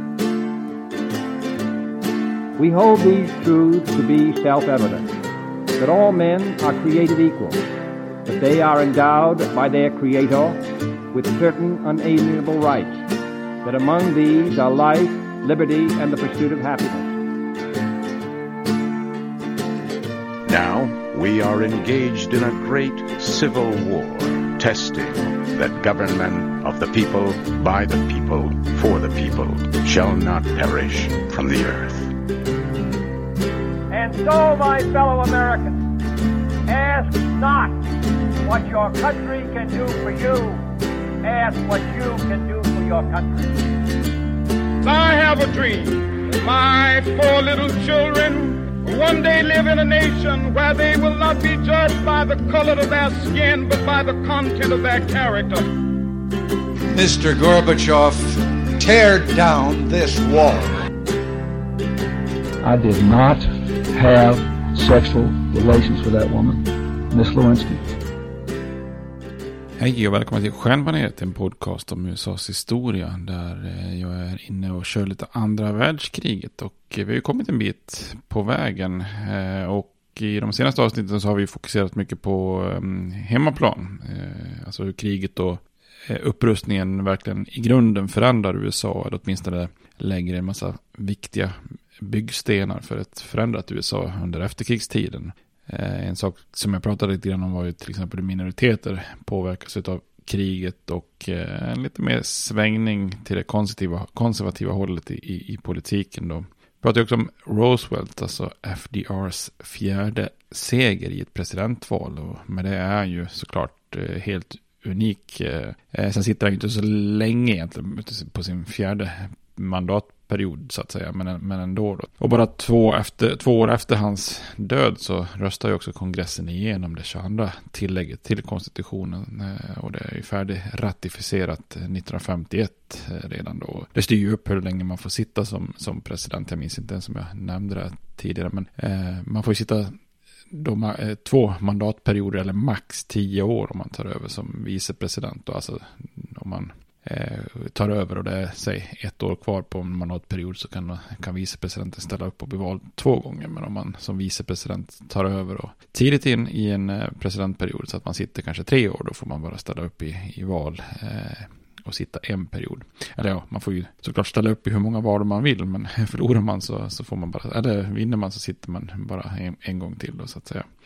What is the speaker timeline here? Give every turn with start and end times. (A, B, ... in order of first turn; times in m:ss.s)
0:02.6-0:05.1 A
0:05.8-0:07.6 A
0:08.2-0:13.1 A
0:13.6-0:17.2 A
0:20.5-0:32.1 B
0:33.9-0:35.9 A
0:36.7-0:37.8 A
0:38.4-0:40.6 A
0:41.2-0:43.6 A
0:44.8-0:55.6 C
0:56.9-1:00.7 D
1:02.6-1:07.8 E
1:09.8-2:20.0 F
2:20.5-2:50.6 F